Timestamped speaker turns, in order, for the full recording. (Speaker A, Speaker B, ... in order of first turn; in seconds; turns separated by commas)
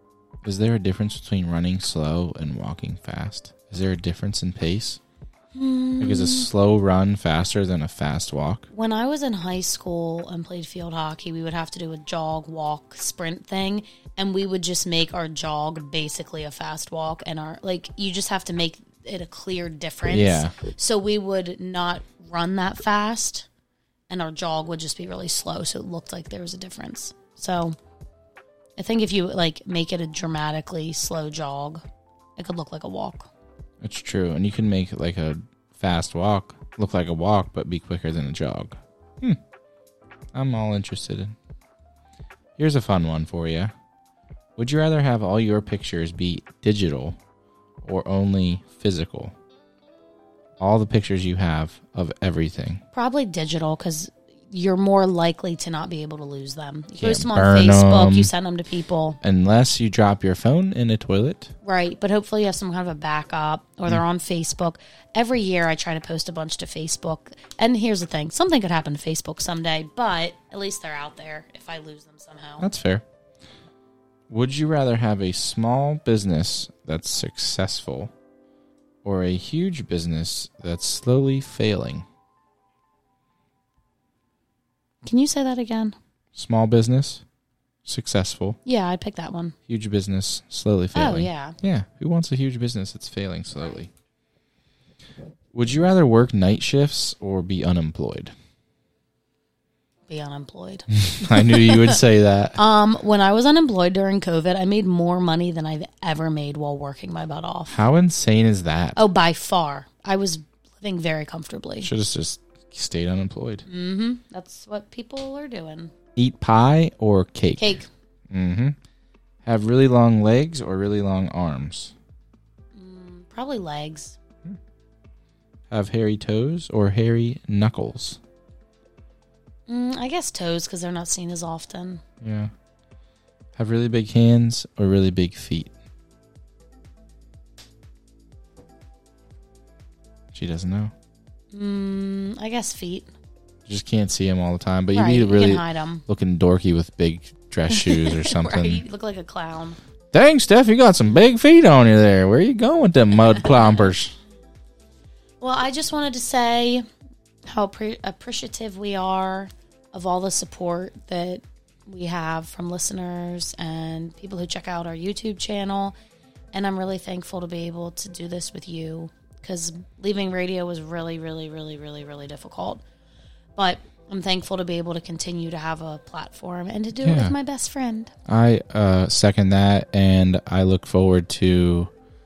Speaker A: 0.4-5.0, Speaker B: 5.5-6.5, Speaker A: 6.0-8.7, Speaker B: 8.7-23.5, Speaker A: 20.1-20.6, Speaker B: 24.1-27.8, Speaker B: 28.8-31.8, Speaker B: 32.4-33.3, Speaker A: 33.8-39.4, Speaker A: 40.3-41.3, Speaker A: 42.6-43.7, Speaker A: 44.6-47.2, Speaker A: 47.8-49.4, Speaker A: 50.6-52.8, Speaker B: 52.9-59.2, Speaker A: 57.0-58.3, Speaker A: 59.2-61.5, Speaker B: 61.6-72.7, Speaker A: 72.6-73.0, Speaker A: 74.3-78.1, Speaker A: 79.0-82.0, Speaker B: 85.0-86.0, Speaker A: 86.3-87.2, Speaker A: 87.8-88.6, Speaker B: 88.7-89.5, Speaker A: 89.7-93.9, Speaker B: 91.0-91.6, Speaker A: 95.5-98.3, Speaker B: 100.1-102.0, Speaker A: 100.9-102.6, Speaker B: 102.6-107.8, Speaker A: 107.7-109.0, Speaker B: 109.0-111.9, Speaker A: 111.8-113.7, Speaker B: 113.7-115.9, Speaker A: 116.2-117.8, Speaker B: 117.6-117.9, Speaker A: 118.3-118.8, Speaker A: 119.5-121.9, Speaker B: 122.8-124.2, Speaker A: 125.7-128.2, Speaker B: 129.7-132.0, Speaker A: 132.2-132.5, Speaker A: 133.6-135.7, Speaker A: 140.3-140.9, Speaker B: 141.5-143.1, Speaker A: 143.7-148.8, Speaker B: 144.9-146.0, Speaker B: 147.7-149.8, Speaker A: 150.1-154.1, Speaker B: 155.4-156.8, Speaker B: 157.5-165.9, Speaker B: 166.5-172.8, Speaker B: 173.6-178.1, Speaker A: 177.0-177.3, Speaker A: 178.3-181.9